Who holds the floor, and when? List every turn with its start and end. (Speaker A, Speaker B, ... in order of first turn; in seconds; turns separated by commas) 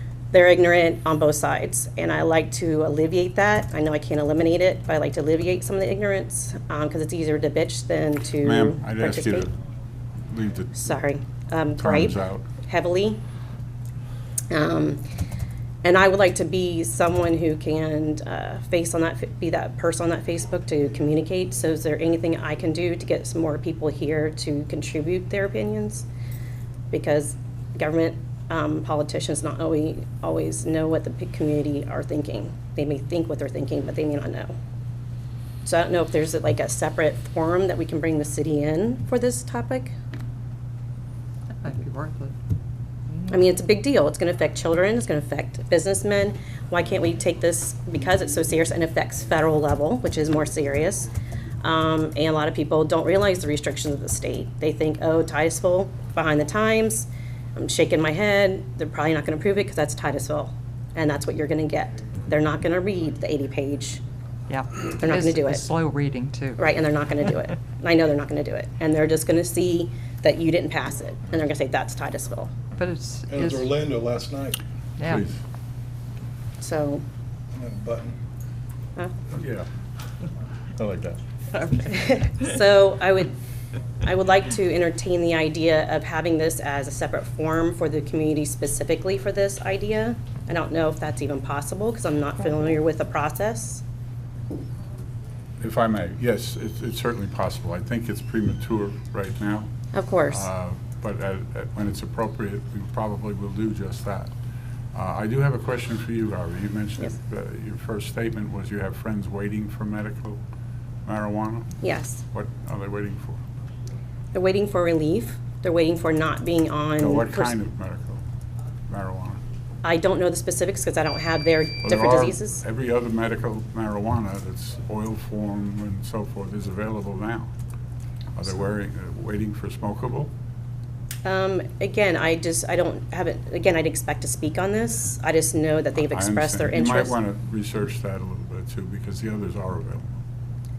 Speaker A: 0.3-9.5, Speaker B: 8.4-9.5, Speaker B: 10.3-10.9, Speaker A: 10.8-13.2, Speaker B: 11.8-12.4, Speaker A: 14.5-15.0, Speaker A: 15.8-26.1, Speaker A: 26.9-34.5, Speaker A: 35.6-39.9, Speaker C: 41.6-42.4, Speaker C: 43.1-43.4, Speaker A: 43.3-51.1, Speaker A: 51.6-64.0, Speaker C: 64.5-66.6, Speaker A: 64.9-65.6, Speaker A: 66.6-72.5, Speaker C: 72.8-73.7, Speaker D: 73.3-74.6, Speaker C: 75.0-75.2, Speaker B: 75.1-75.4, Speaker A: 76.6-77.0, Speaker D: 77.5-78.2, Speaker B: 79.3-79.7, Speaker B: 80.8-81.2, Speaker C: 81.5-82.3, Speaker A: 81.9-83.3, Speaker A: 84.0-93.8, Speaker B: 95.6-99.7, Speaker A: 99.9-100.5, Speaker B: 100.3-104.3, Speaker B: 104.9-110.4, Speaker B: 111.1-111.7, Speaker A: 111.8-112.2, Speaker B: 112.3-113.4, Speaker A: 114.3-117.5, Speaker B: 117.0-118.2, Speaker B: 118.9-119.4, Speaker A: 119.8-122.6, Speaker B: 121.8-127.5, Speaker B: 128.4-130.3, Speaker A: 131.2-137.2, Speaker B: 136.1-140.2